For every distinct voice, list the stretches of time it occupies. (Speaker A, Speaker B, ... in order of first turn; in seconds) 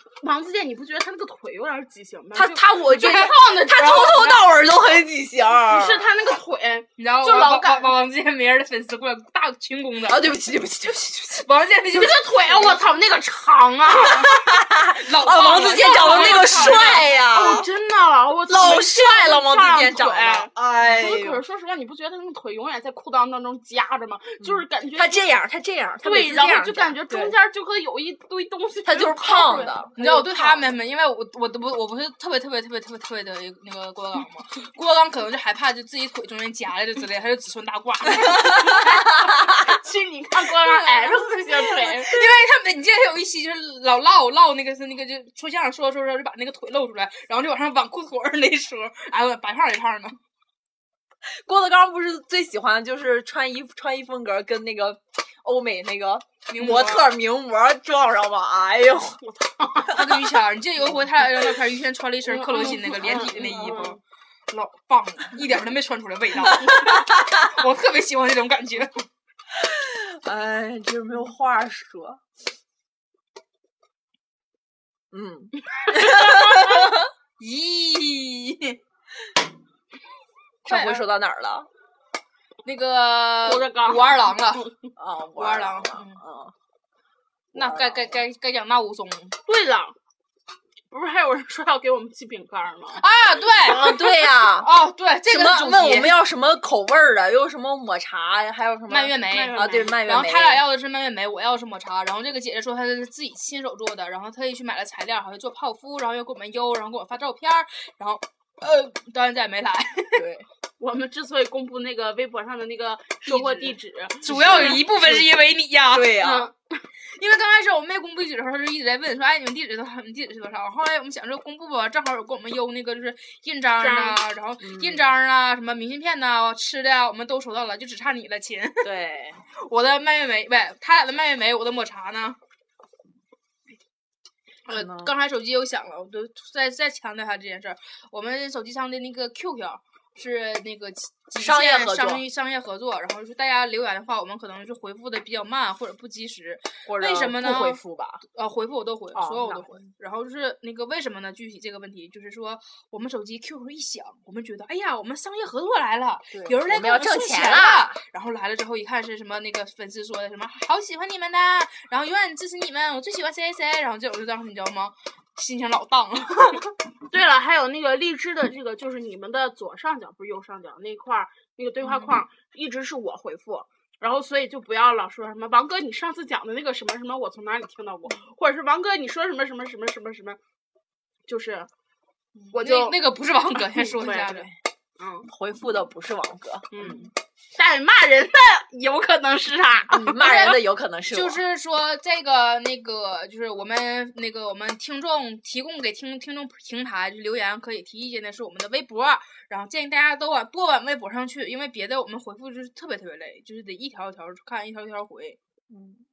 Speaker A: 0.2-4.3, 5.7-7.9, 11.9-14.4, 15.6-25.2, 26.0-30.7, 39.3-42.1, 59.2-60.1, 62.3-64.0, 75.7-76.9, 83.4-84.7, 89.5-90.0, 90.9-93.0, 99.3-100.0, 110.8-114.8, 116.2-116.5, 123.8-124.2, 167.1-180.4, 181.3-181.7, 182.5-183.0, 183.8-184.4, 185.0-185.3, 186.7-190.5
Speaker B: 2.3-6.1, 10.1-11.5, 13.9-17.7, 18.5-21.4, 24.4-27.3, 28.9-29.9, 51.3-59.2, 62.9-63.9, 66.6-67.4, 69.5-72.2, 75.1-77.0, 80.7-81.7, 85.0-86.5, 87.5-88.2, 93.6-94.7, 95.3-100.6, 110.2-110.5, 114.3-115.3, 115.9-116.5, 124.6-125.1, 128.8-129.4, 134.7-135.1, 141.4-142.3, 146.9-148.2, 149.2-149.8, 156.3-158.0, 184.1-184.5, 185.3-187.1, 189.9-191.4, 205.7-206.0
Speaker C: 3.9-4.4, 7.0-10.3, 11.4-12.8, 14.9-17.1, 30.0-39.1, 40.6-50.2, 56.5-57.1, 59.9-64.0, 64.5-69.0, 77.4-78.8, 80.7-81.0, 82.7-84.7, 85.4-86.2, 87.5-89.4, 93.0-96.2, 98.9-110.3, 113.3-116.2, 117.0-128.9, 129.6-132.4, 134.7-166.7, 171.9-172.1, 182.4-184.5, 190.2-190.6, 191.1-205.4